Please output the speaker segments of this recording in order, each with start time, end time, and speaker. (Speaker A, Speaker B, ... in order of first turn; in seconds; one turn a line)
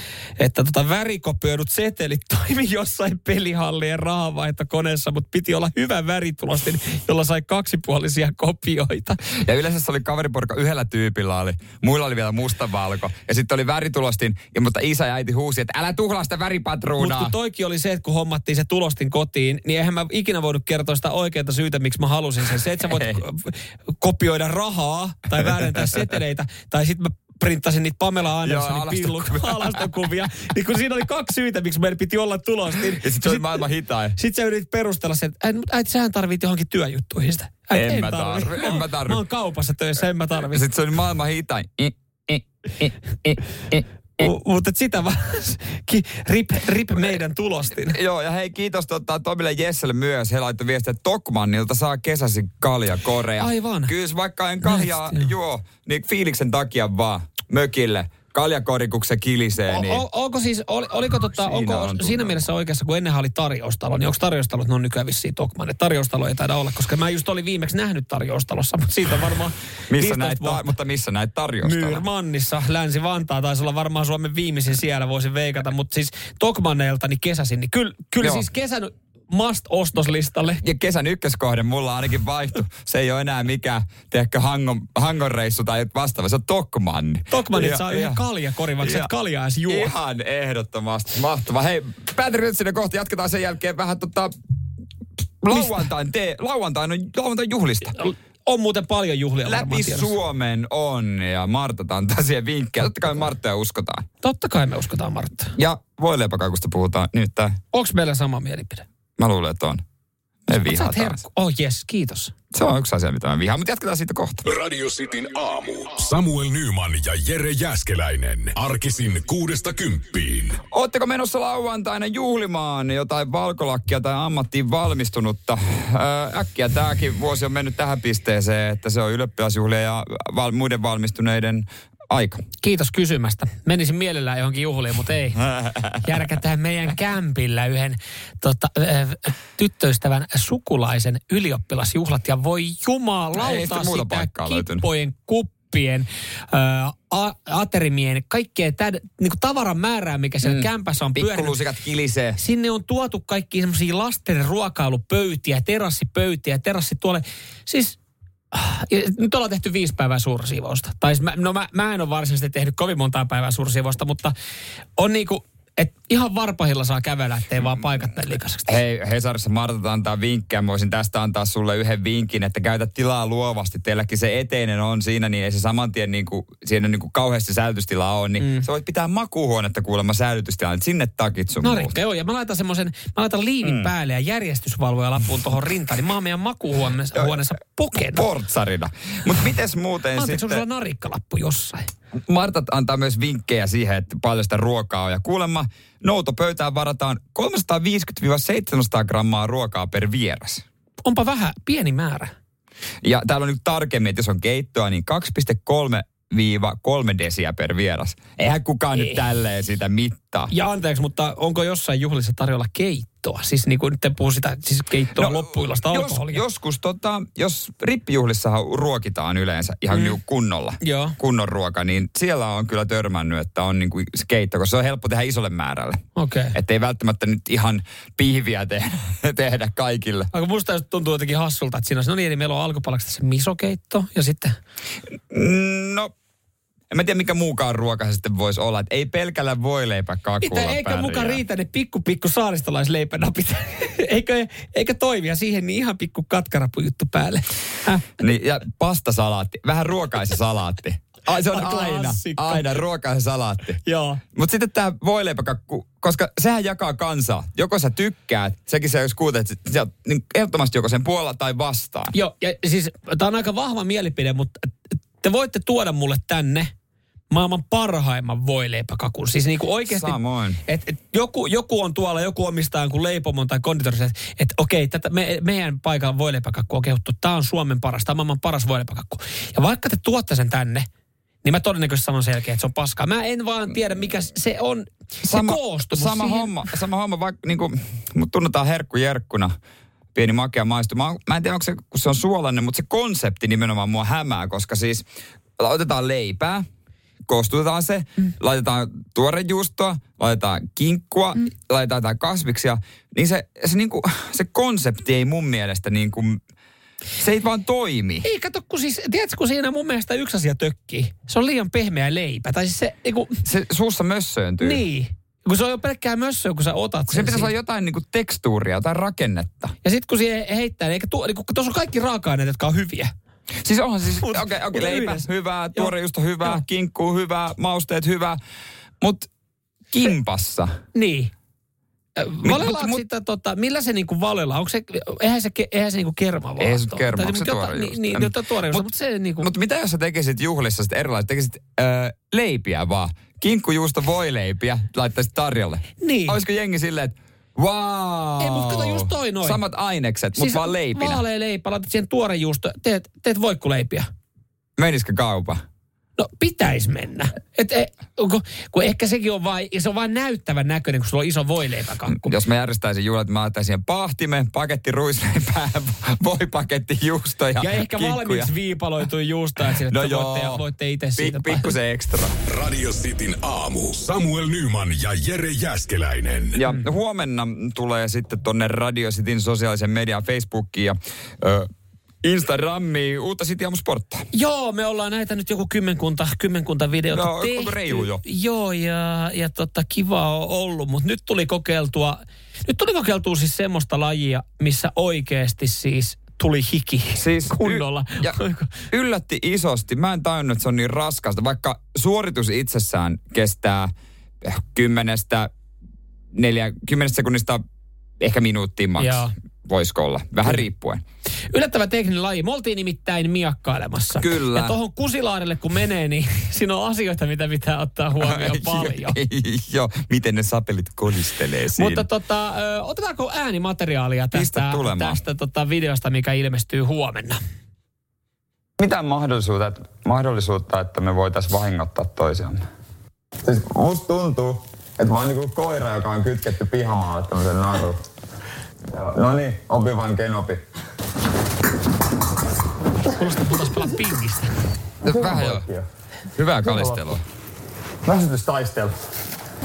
Speaker A: 0.4-9.2
Speaker B: 9.4-17.3
Speaker A: 17.0-33.6
Speaker B: 22.9-23.2
Speaker B: 25.4-26.1
Speaker B: 28.4-29.9
Speaker B: 32.9-34.1
Speaker A: 34.2-40.7
Speaker B: 37.7-39.2
Speaker B: 40.5-44.3
Speaker A: 44.2-48.0
Speaker B: 47.8-60.0
Speaker A: 53.4-53.9
Speaker A: 54.6-55.3
Speaker A: 59.7-70.7
Speaker B: 61.3-62.4
Speaker B: 69.9-72.0
Speaker A: 71.6-80.6
Speaker B: 80.6-88.2
Speaker A: 87.3-89.9
Speaker B: 88.8-89.1
Speaker B: 89.7-94.3
Speaker B: 95.4-98.0
Speaker A: 95.5-95.8
Speaker A: 97.9-100.1
Speaker B: 99.4-104.1
Speaker A: 104.2-105.5
Speaker B: 105.6-107.6
Speaker A: 107.7-108.8
Speaker B: 109.2-109.8
Speaker B: 110.5-111.2
Speaker A: 110.5-112.3
Speaker B: 112.5-114.5
Speaker C: 114.5-120.6
Speaker B: 120.7-132.4
Speaker A: 132.6-135.4
Speaker B: 135.4-136.2
Speaker A: 136.0-151.5
Speaker B: 143.3-144.8
Speaker B: 150.4-152.4
Speaker A: 152.4-158.0
Speaker A: 158.5-164.3
Speaker A: 165.0-168.8
Speaker B: 168.7-181.9
Speaker A: 178.4-178.7
Speaker A: 181.6-188.3
Speaker B: 183.6-183.9
Speaker B: 187.1-190.6
Speaker A: 190.2-191.9
Speaker B: 192.3-200.6
Speaker A: 201.1-202.3
Speaker B: 203.0-210.5
Speaker A: 208.9-209.2
Speaker A: 210.5-216.4
Speaker B: 215.1-226.0
Speaker A: 219.9-220.2
Speaker A: 220.8-221.2
Speaker A: 226.2-226.6
Speaker B: 226.5-230.3
Speaker A: 230.3-234.6
Speaker B: 235.3-236.1
Speaker B: 236.9-241.4
Speaker A: 240.4-248.1
Speaker B: 248.2-253.8
Speaker A: 251.4-252.8
Speaker A: 253.8-254.2
Speaker B: 254.3-262.1
Speaker A: 262.1-266.7
Speaker A: 267.3-280.9
Speaker B: 269.9-270.6
Speaker A: 281.4-286.5
Speaker B: 285.2-289.6
Speaker B: 290.1-295.1
Speaker B: 295.6-296.6
Speaker B: 297.3-306.4
Speaker B: 307.2-308.2
Speaker A: 308.2-313.4
Speaker B: 313.4-314.8
Speaker A: 314.6-317.5
Speaker B: 317.1-319.7
Speaker A: 319.8-323.1
Speaker B: 323.6-328.4
Speaker A: 324.2-325.9
Speaker B: 329.0-329.3
Speaker B: 329.9-330.7
Speaker A: 330.9-331.3
Speaker A: 332.1-339.5
Speaker B: 332.4-333.0
Speaker B: 336.6-338.9
Speaker B: 339.4-351.2
Speaker A: 346.0-346.4
Speaker A: 348.4-349.6
Speaker A: 350.3-354.1
Speaker B: 354.8-355.6
Speaker A: 356.2-362.3
Speaker B: 362.1-368.5
Speaker A: 367.6-371.7
Speaker B: 369.9-370.6
Speaker B: 371.2-372.4
Speaker C: 372.5-376.6
Speaker B: 376.6-381.7
Speaker B: 382.2-384.3
Speaker A: 384.3-398.7
Speaker B: 387.1-388.2
Speaker B: 397.2-398.4
Speaker B: 398.9-405.5
Speaker B: 406.3-407.6
Speaker B: 408.2-411.0
Speaker A: 409.0-409.3
Speaker A: 411.5-419.2
Speaker B: 414.1-414.8
Speaker B: 418.2-422.1
Speaker A: 421.7-427.4
Speaker B: 424.3-425.2
Speaker B: 428.8-432.6
Speaker B: 433.4-438.0
Speaker B: 438.9-440.6
Speaker A: 443.1-444.6
Speaker B: 445.0-447.2
Speaker B: 448.1-448.9